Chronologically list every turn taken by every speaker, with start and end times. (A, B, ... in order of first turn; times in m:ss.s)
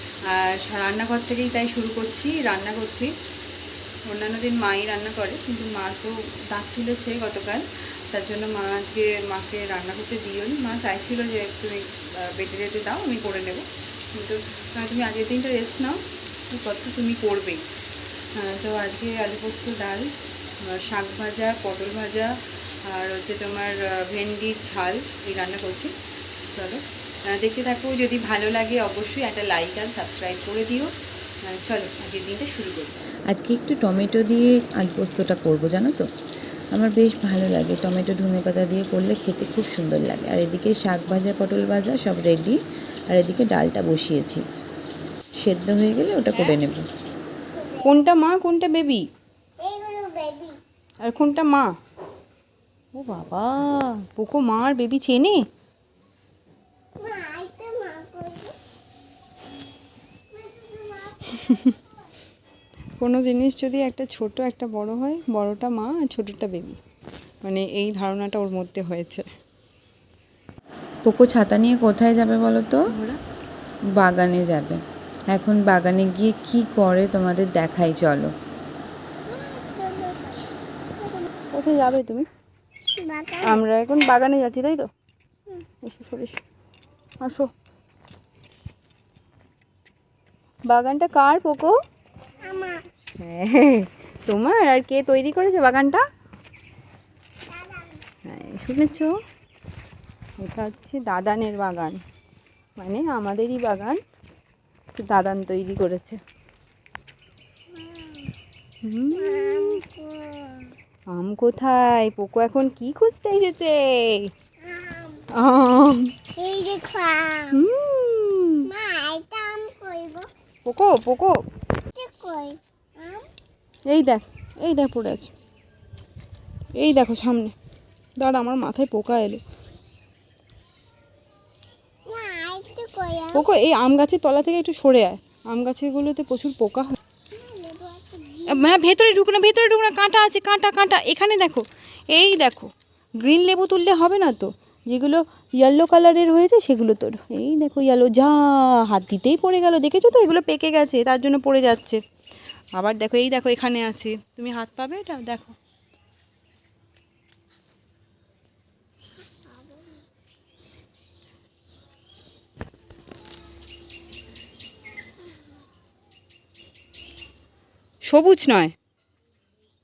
0:00.3-0:03.1 A
0:04.1-0:17.6 A
0:18.4-0:20.1 A
0:20.6-0:25.9 A
0:26.5-0:30.9 A
0:31.4-0:33.0 A
0:33.3-0:36.1 B
0:36.7-0:42.6 B
0:43.1-0:44.4 B
0:45.4-0:46.8 B
0:46.3-0:46.6 A
0:47.5-0:47.9 C
0:47.8-0:49.0 A
0:49.6-0:50.6 C
0:51.0-0:51.7 A
0:52.9-0:55.4 A
0:57.0-0:58.6 C
1:00.3-1:01.8 C
1:01.3-1:01.7 A
1:03.0-1:06.8 A
1:07.4-1:09.3 A
1:11.0-1:12.8 B
1:12.9-1:13.2 A
1:13.9-1:18.3 B
1:19.3-1:21.3 C
1:21.5-1:22.3 A
1:23.0-1:23.6 C
1:23.4-1:24.9 A
1:25.8-1:26.4 A
1:27.2-1:27.5 A
1:30.7-1:31.7 A
1:32.4-1:32.9 C
1:33.2-1:36.0 A
1:37.5-1:38.0 C
1:38.3-1:39.1 A
1:40.4-1:42.0 A
1:42.8-1:44.0 A
1:45.0-1:46.2 A
1:47.8-1:48.3 C
1:48.8-1:49.8 A
1:49.2-1:50.8 C
1:51.1-1:54.3 A
1:54.6-1:55.3 C
1:55.3-1:56.1 A
1:56.4-1:57.6 C
1:57.5-1:58.7 A
1:58.6-2:00.3 C
2:00.7-2:01.4 A
2:01.9-2:03.3 C
2:03.9-2:05.3 A
2:06.8-2:07.5 A
2:08.2-2:09.4 A
2:12.1-2:13.4 C
2:13.3-2:17.0 A
2:17.3-2:18.8 C
2:18.5-2:32.0 A
2:32.7-2:35.6 A
2:39.4-2:40.0 C
2:48.0-2:48.7 A